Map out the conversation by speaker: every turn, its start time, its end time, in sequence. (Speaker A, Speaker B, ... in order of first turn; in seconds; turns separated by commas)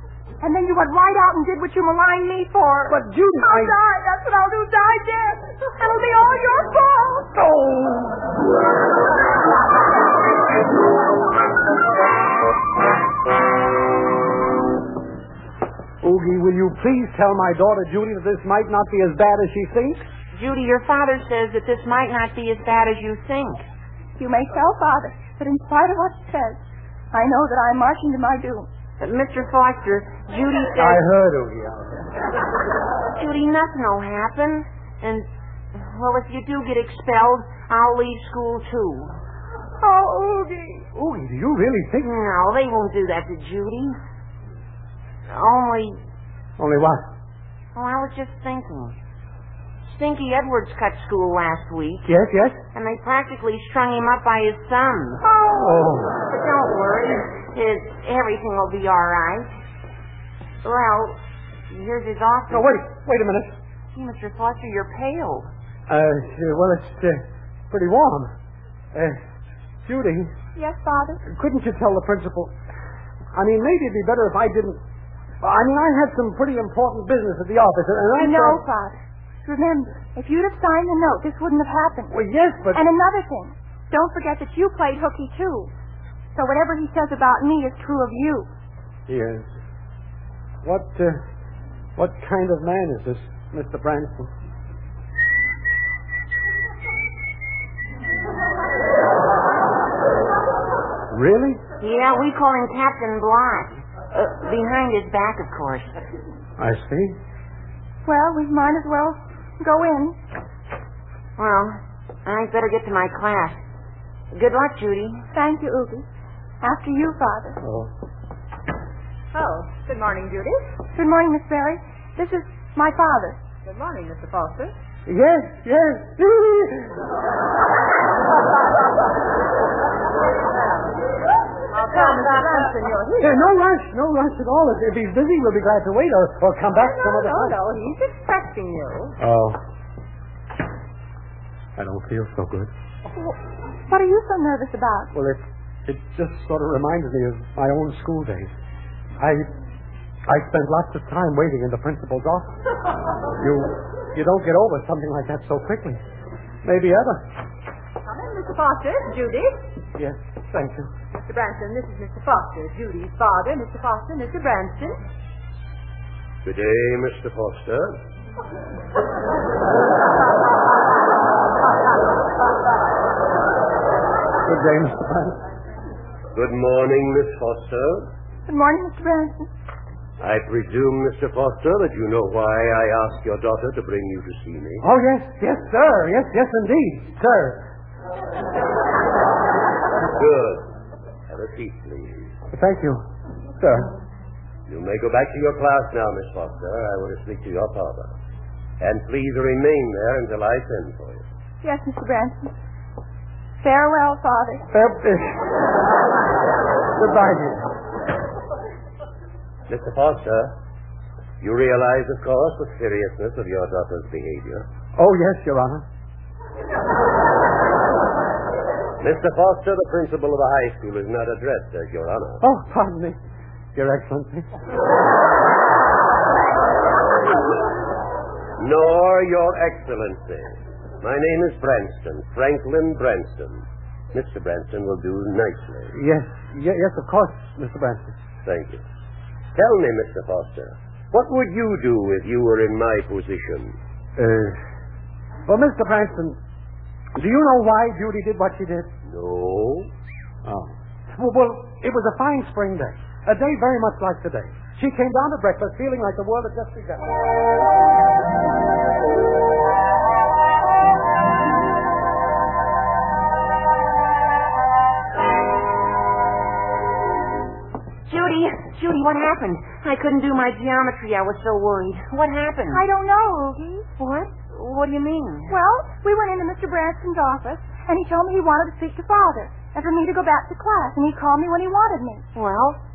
Speaker A: 0.4-7.3, Speaker B: 2.9-3.8, Speaker B: 7.3-8.3, Speaker B: 16.0-20.0, Speaker C: 20.3-23.6, Speaker A: 24.2-28.7, Speaker C: 29.0-31.0, Speaker B: 30.8-32.1, Speaker C: 33.1-39.1, Speaker A: 39.8-40.9, Speaker B: 40.9-42.1, Speaker C: 42.0-44.0, Speaker C: 45.3-46.0, Speaker B: 46.6-47.0, Speaker C: 47.7-48.9, Speaker C: 49.9-52.1, Speaker B: 52.0-52.6, Speaker C: 52.7-55.2, Speaker A: 55.2-55.8, Speaker B: 55.5-56.2, Speaker C: 56.3-59.5, Speaker C: 60.6-61.2, Speaker C: 61.7-62.7, Speaker B: 62.5-63.5, Speaker C: 63.9-65.5, Speaker B: 65.9-68.3, Speaker B: 68.9-69.2, Speaker B: 69.8-70.3, Speaker A: 70.5-71.2, Speaker B: 71.2-72.5, Speaker B: 73.3-74.8, Speaker B: 75.4-78.6, Speaker A: 78.2-82.1, Speaker B: 82.1-82.9, Speaker A: 82.7-85.7, Speaker A: 86.3-88.5, Speaker B: 89.1-89.5, Speaker B: 90.6-91.2, Speaker B: 92.0-94.3, Speaker B: 101.1-101.6, Speaker C: 101.8-106.0, Speaker B: 106.6-107.2, Speaker A: 108.0-110.2, Speaker C: 111.4-113.6, Speaker C: 114.3-115.2, Speaker A: 115.3-116.0, Speaker A: 116.6-117.6, Speaker B: 117.6-117.9, Speaker D: 119.3-120.8, Speaker A: 120.9-123.4, Speaker D: 123.6-124.7, Speaker B: 125.0-127.0, Speaker D: 131.7-133.5, Speaker B: 133.2-137.6, Speaker D: 136.7-139.2, Speaker B: 139.2-139.6, Speaker B: 141.8-142.7, Speaker A: 143.9-145.1, Speaker B: 145.1-148.5, Speaker B: 149.2-149.5, Speaker B: 150.3-152.5, Speaker B: 153.4-156.0, Speaker B: 156.6-157.2, Speaker D: 158.0-159.7, Speaker B: 159.9-160.9, Speaker D: 161.1-165.0, Speaker E: 166.4-168.0, Speaker B: 174.4-175.4, Speaker E: 176.3-178.1, Speaker A: 178.5-179.5, Speaker E: 180.2-184.8, Speaker B: 184.8-187.6, Speaker E: 190.1-190.7, Speaker E: 191.3-192.4, Speaker B: 192.5-193.0, Speaker B: 193.6-193.9, Speaker E: 194.7-198.1, Speaker E: 198.8-201.2, Speaker A: 201.6-202.5, Speaker A: 203.6-204.7, Speaker B: 204.7-205.5, Speaker B: 207.0-207.7, Speaker E: 209.7-210.5, Speaker E: 211.4-214.7, Speaker B: 214.9-215.8, Speaker E: 219.0-222.4, Speaker B: 222.4-223.2, Speaker B: 223.7-224.5, Speaker E: 228.6-235.9, Speaker B: 235.9-238.1, Speaker E: 238.4-238.8, Speaker E: 239.5-243.8, Speaker B: 244.2-244.6, Speaker B: 245.4-246.4, Speaker B: 247.1-248.9, Speaker E: 249.1-249.9, Speaker B: 250.4-257.2, Speaker C: 268.1-272.9, Speaker A: 272.7-273.9, Speaker C: 274.0-275.5, Speaker A: 275.5-282.2, Speaker C: 282.4-282.8